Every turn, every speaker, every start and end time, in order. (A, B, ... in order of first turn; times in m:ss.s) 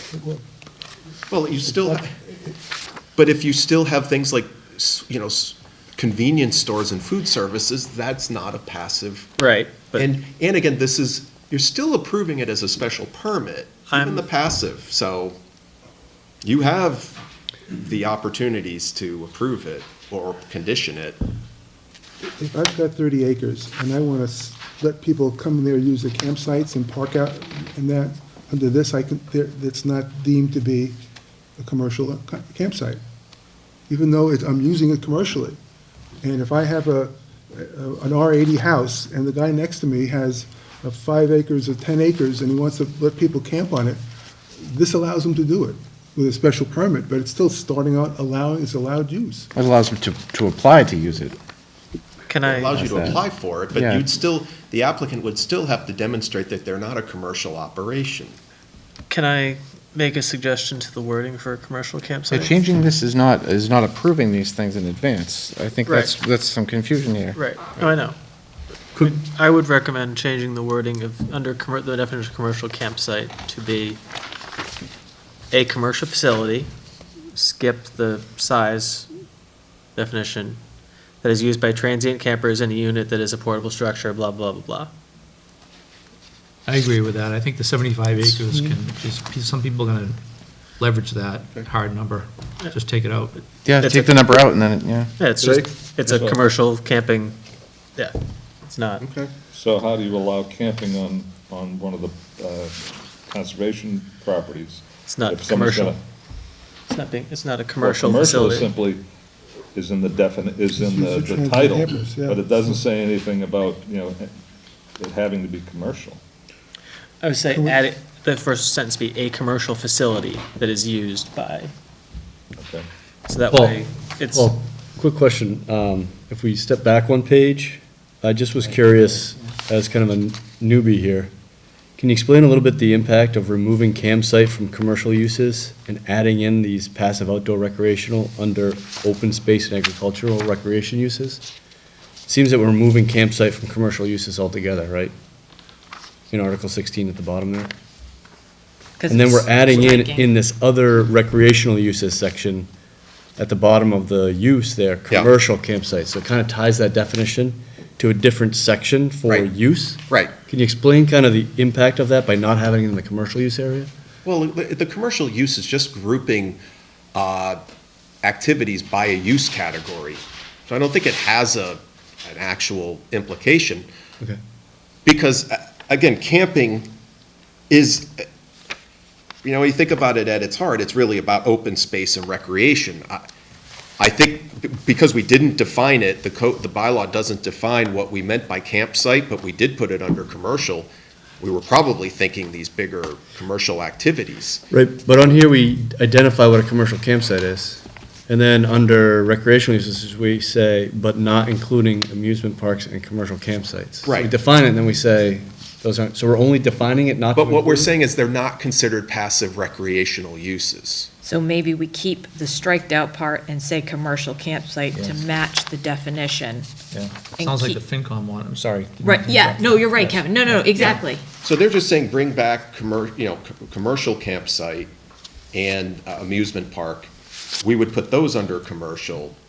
0:01.3-0:02.1 A
0:01.6-0:02.0 B
0:03.2-0:09.3 A
0:09.4-0:10.1 C
0:10.0-0:15.4 A
0:13.9-0:14.2 C
0:16.4-0:17.1 A
0:17.8-0:21.2 A
0:22.2-0:31.0 B
0:31.6-0:33.0 B
0:33.9-0:35.6 B
0:36.2-0:44.0 B
0:44.6-0:49.5 B
0:49.5-0:51.3 D
0:52.3-0:52.9 C
0:52.4-0:58.4 A
0:52.7-0:53.2 D
0:53.7-0:54.0 D
0:59.1-1:02.6 C
1:02.3-1:07.4 D
1:05.9-1:06.1 C
1:07.3-1:08.2 C
1:09.0-1:14.0 C
1:15.5-1:16.7 C
1:17.3-1:19.1 C
1:20.0-1:20.6 C
1:21.2-1:24.9 C
1:26.7-1:30.2 E
1:30.8-1:33.3 E
1:33.7-1:35.1 D
1:33.8-1:34.4 C
1:35.2-1:37.4 C
1:36.0-1:36.4 F
1:38.0-1:39.1 C
1:39.0-1:39.3 A
1:39.5-1:46.0 F
1:45.1-1:46.0 C
1:46.9-1:48.7 C
1:47.8-1:49.0 F
1:49.7-1:54.3 F
1:50.7-1:52.8 B
1:55.0-1:56.2 F
1:57.2-2:01.7 C
1:57.5-1:57.8 B
2:02.6-2:02.9 F
2:03.3-2:04.5 C
2:03.5-2:11.3 G
2:12.0-2:21.4 G
2:22.3-2:25.1 G
2:26.3-2:27.7 G
2:29.0-2:30.3 H
2:29.1-2:32.7 G
2:33.4-2:43.9 G
2:44.2-2:46.6 A
2:47.1-2:47.6 A
2:48.2-2:53.9 A
2:55.0-2:56.9 A
2:57.7-2:58.2 A
2:59.4-3:03.2 A
3:04.0-3:14.6 A
3:14.7-3:27.9 G
3:24.0-3:24.3 A
3:27.4-3:31.1 A
3:31.2-3:36.7 H
3:34.9-3:35.2 E
3:36.9-3:40.7 E
3:37.4-3:37.8 H
3:39.0-3:41.2 H
3:41.4-3:44.9 A
3:45.5-3:49.4 A